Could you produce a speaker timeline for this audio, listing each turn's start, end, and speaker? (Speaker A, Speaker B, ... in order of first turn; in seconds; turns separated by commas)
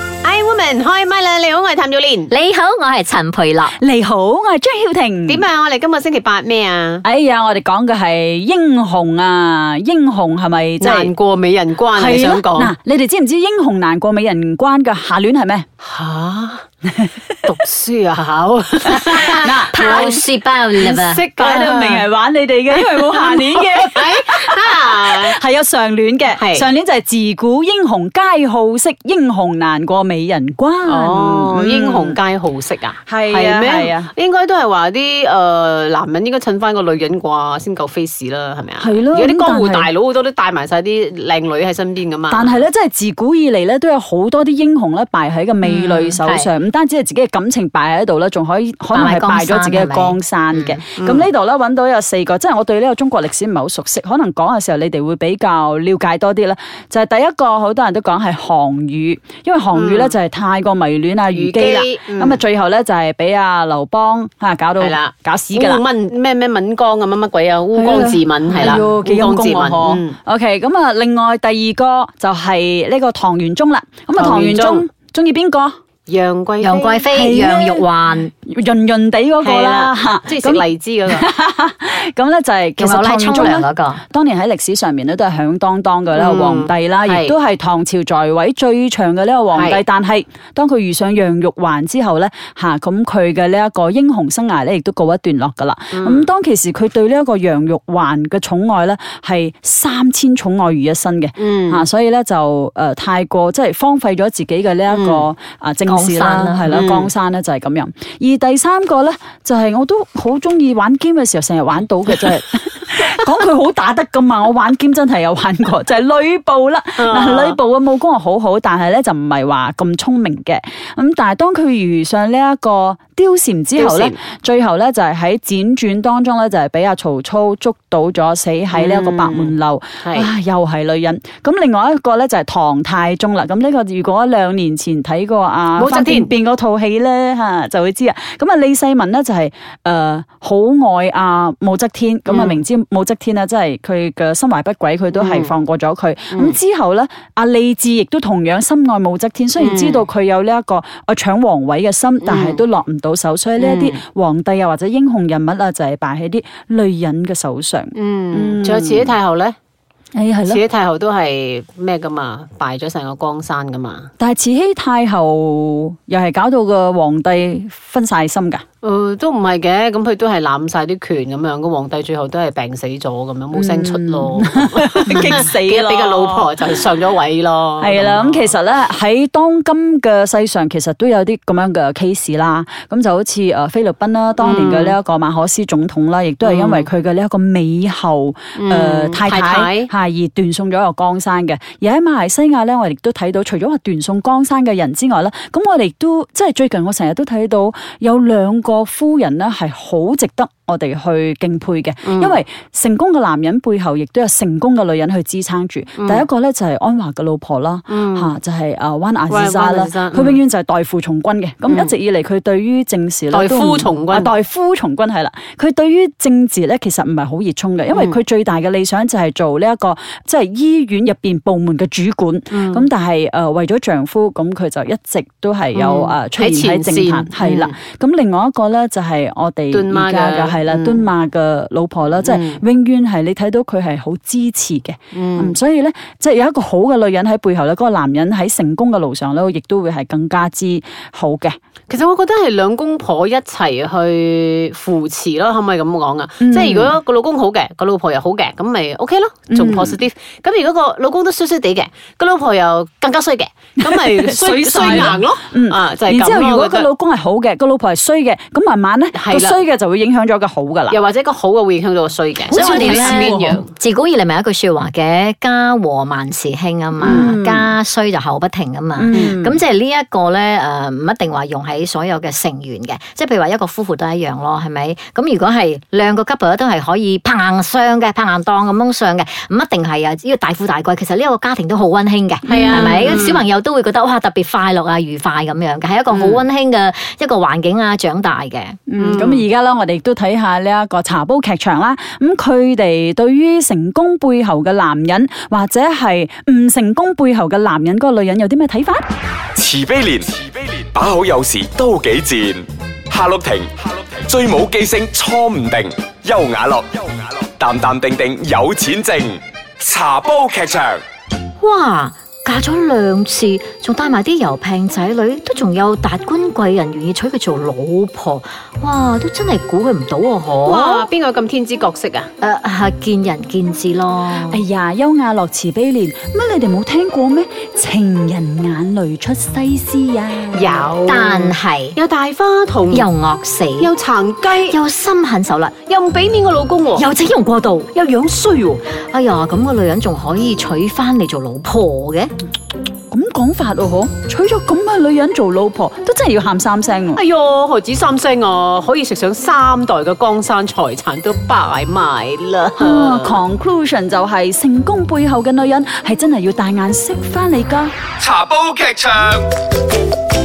Speaker A: 0.2-2.3, Speaker B: 2.3-3.8, Speaker C: 3.8-5.5, Speaker A: 5.3-7.0, Speaker C: 7.0-11.1, Speaker A: 10.8-12.7, Speaker C: 11.9-15.7, Speaker A: 15.8-16.7, Speaker A: 17.4-20.2, Speaker C: 19.3-20.2, Speaker B: 19.3-21.2, Speaker A: 20.8-22.1, Speaker C: 21.4-32.2, Speaker A: 22.7-25.4, Speaker A: 26.3-26.7, Speaker A: 30.9-42.6, Speaker C: 33.1-34.1, Speaker C: 38.8-39.9, Speaker C: 42.3-65.8, Speaker B: 45.6-46.5, Speaker B: 48.9-50.8, Speaker A: 51.0-51.3, Speaker A: 59.7-60.1, Speaker A: 61.3-62.4, Speaker A: 64.8-70.2, Speaker C: 67.7-75.8, Speaker A: 74.2-74.9, Speaker A: 76.1-77.1, Speaker B: 76.6-78.3, Speaker C: 77.1-159.2, Speaker A: 79.4-81.3, Speaker B: 82.8-84.0, Speaker A: 86.2-87.4, Speaker A: 89.5-89.8, Speaker A: 95.9-96.3, Speaker A: 101.4-101.9, Speaker A: 104.9-105.3, Speaker B: 105.9-106.8, Speaker A: 106.7-107.1, Speaker A: 117.0-117.6, Speaker A: 123.8-124.2, Speaker A: 128.7-130.3, Speaker A: 135.8-136.3, Speaker A: 142.3-142.6, Speaker A: 145.1-145.5, Speaker A: 146.3-146.6, Speaker A: 149.6-150.1, Speaker A: 152.2-152.6, Speaker A: 153.6-154.0, Speaker A: 157.9-159.6, Speaker C: 160.1-160.6, Speaker A: 160.5-164.1, Speaker C: 164.2-168.6, Speaker A: 168.8-178.6, Speaker C: 173.5-176.7, Speaker C: 177.8-241.6, Speaker A: 184.4-185.0, Speaker A: 186.4-186.9, Speaker A: 188.6-189.9, Speaker A: 202.1-202.4, Speaker A: 206.0-206.2, Speaker A: 207.9-208.3, Speaker A: 209.3-210.4, Speaker A: 211.7-211.9, Speaker A: 213.3-214.3, Speaker A: 217.9-218.2, Speaker A: 222.5-222.9, Speaker A: 225.8-227.8, Speaker A: 229.7-231.1, Speaker A: 232.2-232.6, Speaker A: 235.1-235.6, Speaker A: 241.9-256.9, Speaker C: 246.4-246.9, Speaker C: 249.5-250.0, Speaker C: 253.8-261.0, Speaker A: 259.1-259.6, Speaker A: 260.9-263.7, Speaker B: 262.5-288.8, Speaker C: 262.5-263.6, Speaker A: 267.0-267.3, Speaker C: 267.0-267.8, Speaker C: 269.0-269.4, Speaker A: 269.1-269.6, Speaker C: 282.4-283.2, Speaker A: 282.4-283.4, Speaker A: 286.1-286.4, Speaker C: 288.9-299.1, Speaker A: 289.0-289.4, Speaker D: 299.5-311.0, Speaker B: 311.6-321.1, Speaker A: 320.6-322.3, Speaker B: 322.4-324.6, Speaker C: 324.5-330.9, Speaker A: 330.5-333.1, Speaker B: 331.1-331.9, Speaker B: 332.9-333.9, Speaker A: 333.8-334.8, Speaker B: 334.7-335.8, Speaker A: 335.9-337.1, Speaker B: 336.9-342.3, Speaker A: 338.1-338.5, Speaker C: 343.1-347.2, Speaker A: 347.1-353.4, Speaker C: 352.8-357.9, Speaker D: 358.2-359.4